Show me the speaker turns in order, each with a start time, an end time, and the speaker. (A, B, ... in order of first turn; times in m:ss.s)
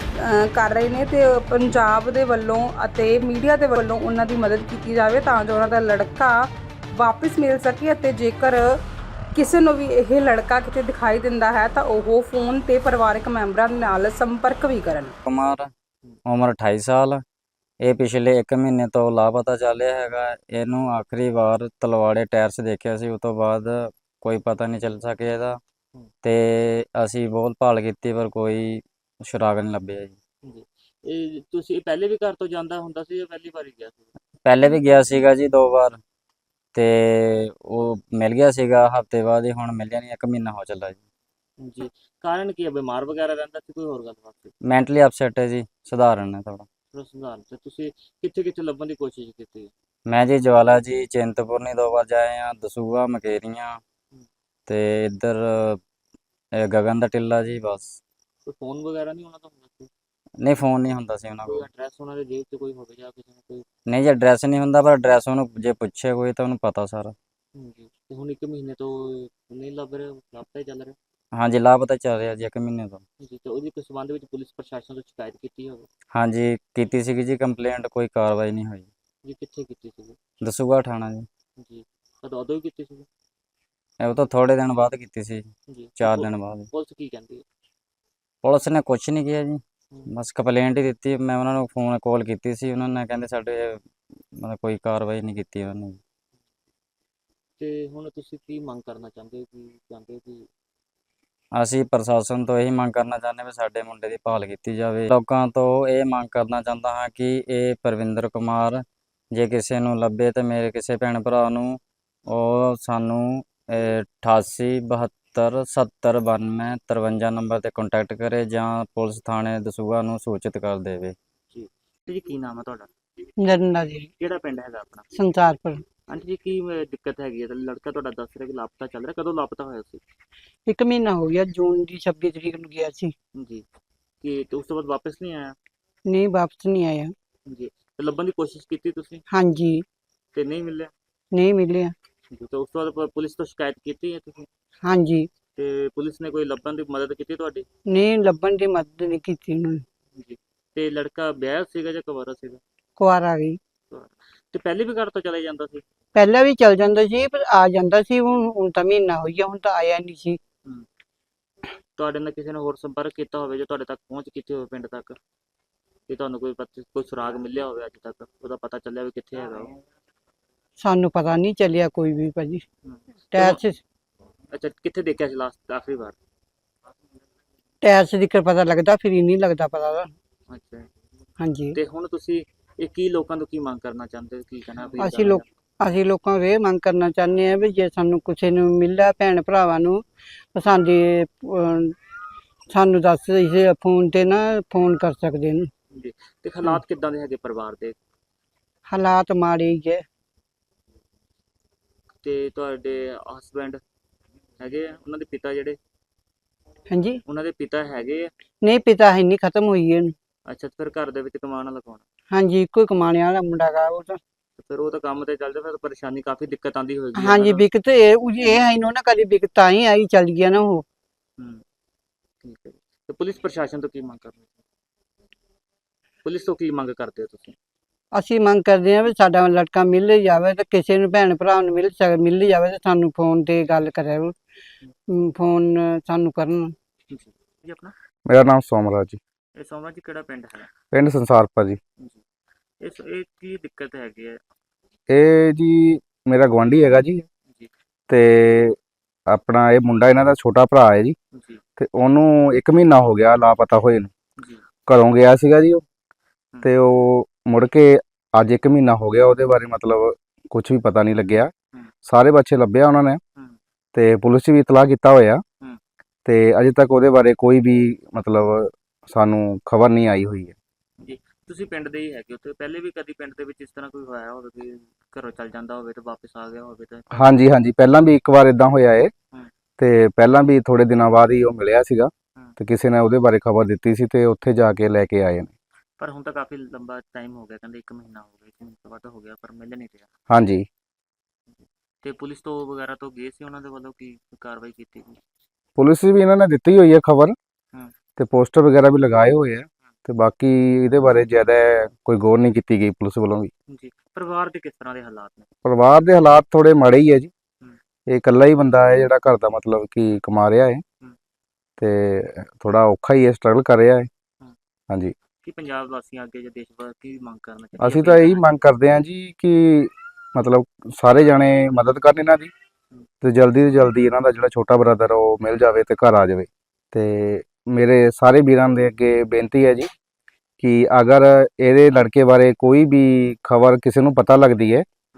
0:00.2-0:08.8 A
0:09.3-0:15.1 A
0:15.3-0:15.7 B
0:16.3-0:17.2 B
0:17.8-0:25.6 B
0:26.2-0:30.2 B
0:30.4-0:34.1 C
0:34.4-0:36.0 B
0:36.7-0:41.0 B
0:41.6-0:44.5 C
0:44.6-0:46.7 B
0:46.9-0:49.7 C
0:50.1-0:53.8 B
0:54.7-0:55.8 B
0:56.6-0:58.0 B
0:58.5-0:59.9 C
1:00.4-1:01.6 B
1:01.5-1:03.6 C
1:03.9-1:07.2 B
1:07.6-1:11.0 C
1:11.3-1:13.0 B
1:13.2-1:15.9 C
1:16.1-1:18.9 B
1:19.2-1:20.2 C
1:20.4-1:21.3 B
1:21.6-1:23.1 C
1:24.0-1:26.7 B
1:25.7-1:27.4 C
1:28.4-1:33.8 B
1:34.4-1:36.0 B
1:37.6-1:40.5 C
1:41.5-2:01.1 B
2:01.5-2:02.9 C
2:03.4-2:04.1 D
2:04.2-2:05.0 C
2:05.1-2:05.8 D
2:06.1-2:10.0 C
2:10.7-2:13.1 D
2:13.4-2:13.6 C
2:14.2-2:15.6 C
2:16.1-2:17.1 D
2:17.5-2:19.2 C
2:19.3-2:19.8 D
2:20.3-2:20.9 C
2:21.3-2:21.9 D
2:22.3-2:24.5 C
2:24.8-2:25.3 D
2:25.5-2:27.7 C
2:27.9-2:29.8 D
2:30.1-2:32.6 C
2:33.0-2:33.6 D
2:33.9-2:35.8 C
2:36.2-2:40.4 D
2:42.0-2:45.2 C
2:46.1-2:49.8 C
2:50.8-2:52.6 D
2:52.8-2:53.6 C
2:53.3-2:53.8 D
2:54.5-2:56.2 C
2:57.8-3:00.1 D
3:00.5-3:00.9 C
3:01.4-3:01.8 D
3:01.7-3:05.4 C
3:05.0-3:10.0 D
3:10.5-3:11.9 D
3:12.7-3:15.7 D
3:15.9-3:18.0 C
3:18.9-3:20.0 D
3:22.2-3:23.8 C
3:24.6-3:25.8 C
3:26.9-3:27.2 D
3:27.2-3:28.3 C
3:28.6-3:30.1 D
3:30.5-3:32.0 C
3:32.3-3:34.2 D
3:34.6-3:37.6 C
3:37.1-3:40.8 D
3:41.4-3:41.6 C
3:42.4-3:44.4 C
3:46.2-3:47.6 C
3:48.1-3:54.3 D
3:55.1-3:56.7 D
3:57.1-3:57.9 C
3:58.3-3:59.2 E
3:59.6-4:00.7 C
4:00.9-4:01.8 E
4:02.8-4:04.4 C
4:05.1-4:07.2 E
4:08.1-4:08.8 E
4:09.3-4:11.2 E
4:11.3-4:11.6 C
4:11.8-4:14.1 E
4:14.9-4:15.8 E
4:16.6-4:21.5 E
4:22.1-4:23.2 E
4:23.9-4:25.4 E
4:26.2-4:30.6 E
4:31.0-4:37.3 C
4:37.1-4:39.1 E
4:39.8-4:45.5 E
4:46.0-4:50.1 C
4:50.3-4:50.6 E
4:52.0-4:55.2 C
4:55.8-4:57.3 E
4:58.2-5:03.5 E
5:03.7-5:05.5 C
5:05.6-5:07.3 E
5:08.1-5:10.8 E
5:11.8-5:14.1 E
5:15.4-5:18.4 C
5:17.8-5:22.5 E
5:23.2-5:29.9 E
5:30.6-5:34.8 E